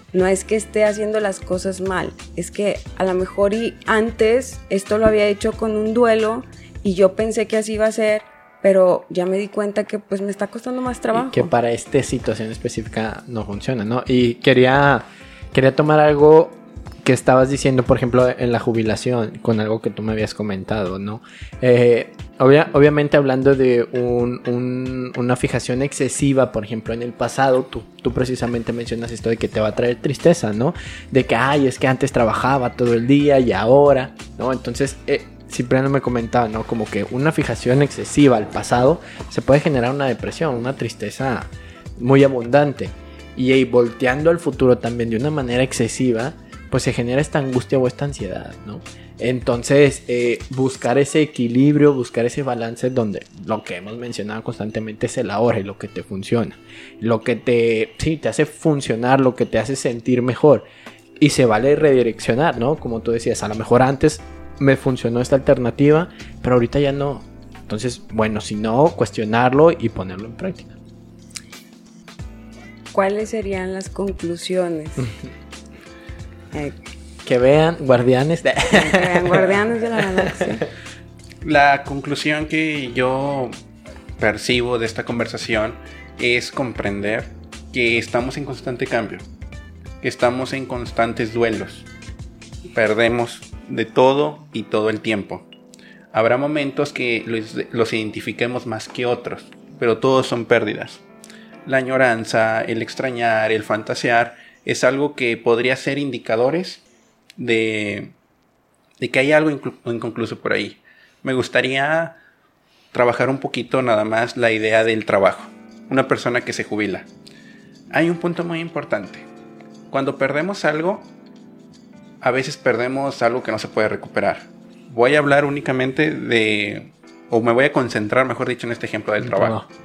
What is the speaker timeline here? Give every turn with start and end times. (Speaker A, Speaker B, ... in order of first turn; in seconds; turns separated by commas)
Speaker A: 0.1-11.5, Speaker B: 11.1-60.6, Speaker B: 61.2-70.8, Speaker A: 72.9-75.1, Speaker B: 77.2-80.5, Speaker A: 78.7-80.7, Speaker C: 81.4-83.5, Speaker C: 84.2-89.2, Speaker C: 90.0-91.9, Speaker C: 92.7-95.5, Speaker C: 96.1-101.0, Speaker C: 101.7-106.8, Speaker C: 107.4-108.1, Speaker C: 109.0-112.2, Speaker C: 112.9-117.1, Speaker C: 117.9-119.3, Speaker C: 119.9-121.1, Speaker C: 122.2-129.6, Speaker B: 129.2-129.7